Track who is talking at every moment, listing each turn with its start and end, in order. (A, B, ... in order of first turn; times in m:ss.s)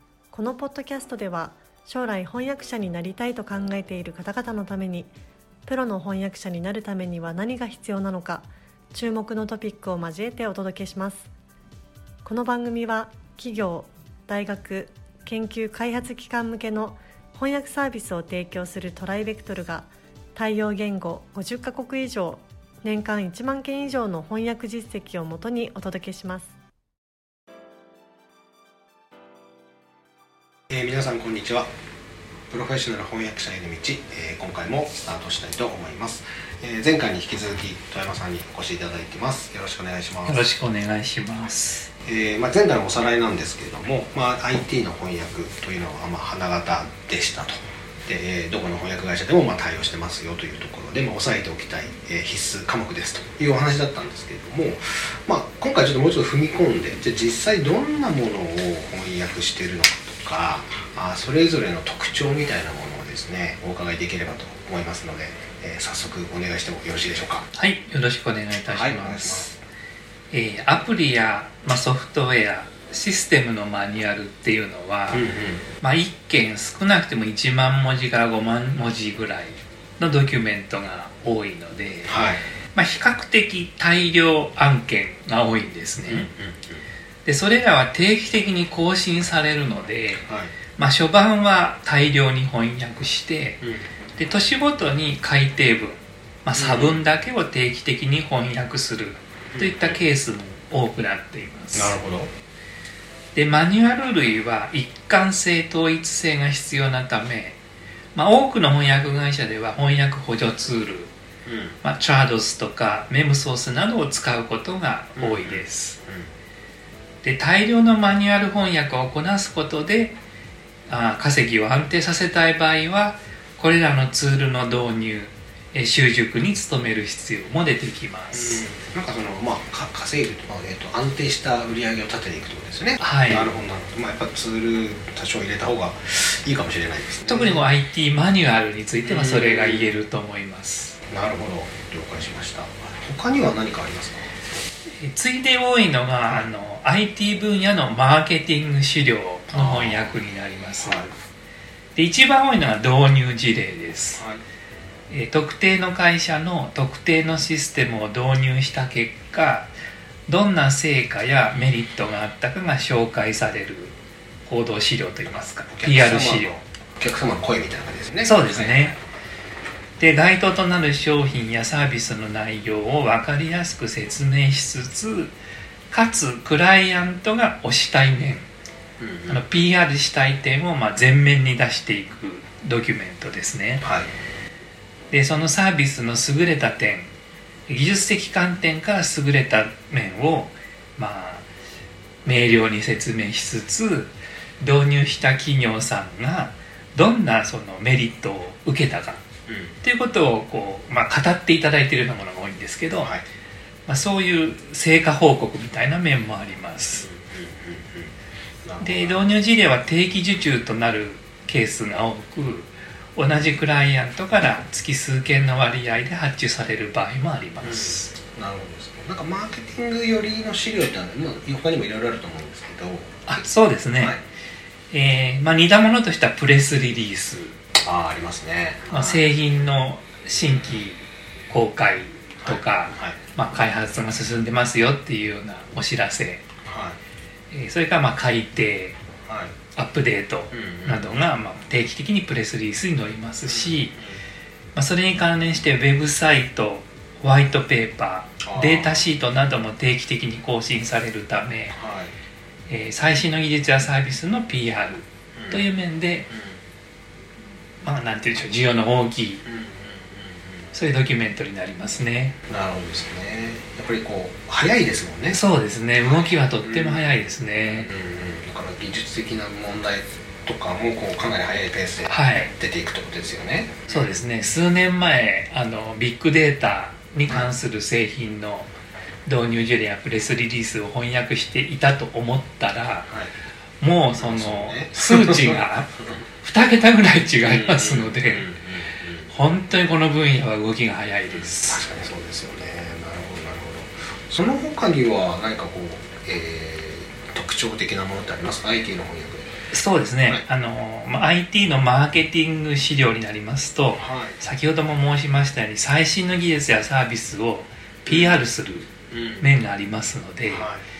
0:00.3-0:05.1 A
0:05.7-0:11.3 A
0:12.2-0:26.5 A
0:30.7-0:31.7 B
0:32.5-0:40.4 B
0:40.2-0:41.9 C
0:42.0-1:07.5 B
1:07.5-1:09.5 C
1:08.7-1:09.6 B
1:10.3-1:15.2 C
1:15.1-1:15.7 B
1:15.8-1:26.3 C
1:22.1-1:22.4 B
1:26.0-1:26.9 B
1:27.2-1:33.6 C
1:30.2-1:30.6 B
1:33.6-1:33.9 B
1:34.2-1:42.0 C
1:36.6-1:37.0 B
1:39.5-1:40.0 B
1:41.7-1:42.3 B
1:43.4-1:47.6 C
1:48.2-1:51.1 C
1:51.5-1:51.8 B
1:51.8-1:56.0 C
1:55.2-1:56.3 B
1:57.2-2:00.2 C
2:00.9-2:08.6 C
2:08.3-2:17.6 B
2:13.0-2:13.5 C
2:17.3-2:21.0 C
2:19.0-2:20.0 B
2:21.1-2:24.4 B
2:25.0-2:31.1 C
2:29.5-2:30.2 B
2:30.8-2:31.1 B
2:32.0-2:34.2 C
2:34.2-2:34.4 B
2:35.1-2:39.7 C
2:40.3-2:46.5 C
2:45.7-2:48.9 B
2:48.2-2:49.0 C
2:50.0-2:55.3 C
2:55.9-2:58.5 C
2:59.0-2:59.5 B
2:59.3-3:03.9 C
3:03.8-3:04.1 B
3:05.1-3:07.1 C
3:07.7-3:11.5 C
3:12.2-3:19.2 C
3:19.5-3:19.8 B
3:19.8-3:23.1 C
3:23.0-3:23.3 B
3:23.9-3:27.1 C
3:27.0-3:28.1 B
3:28.6-3:29.2 B
3:28.8-3:38.1 C
3:37.6-3:43.4 B
3:43.3-3:44.2 C
3:44.9-3:47.6 C
3:47.8-3:49.3 B
3:48.9-3:56.4 C
3:52.4-3:53.2 B
3:56.6-3:57.0 B
3:57.5-3:59.0 C
3:59.2-3:59.6 B
3:59.8-4:04.0 C
4:00.5-4:01.1 B
4:03.4-4:04.2 B
4:04.8-4:11.8 C
4:08.4-4:09.1 B
4:11.7-4:12.2 B
4:12.7-4:16.3 C
4:15.4-4:15.7 B
4:16.3-4:16.6 B
4:17.8-4:19.4 C
4:19.4-4:20.7 B
4:20.7-4:22.4 C
4:22.5-4:25.4 B
4:25.3-4:27.9 C
4:26.0-4:34.2 B
4:32.1-4:32.5 C
4:33.9-4:38.7 C
4:39.3-4:43.1 C
4:43.1-4:43.4 B
4:43.8-4:45.9 C
4:44.2-4:46.2 B
4:46.4-4:48.5 C
4:47.4-4:49.3 B
4:49.3-4:51.9 C
4:51.3-4:59.5 B
4:59.7-5:10.7 C
5:04.0-5:04.4 B
5:08.1-5:08.4 B
5:09.1-5:09.5 B
5:10.5-5:10.9 B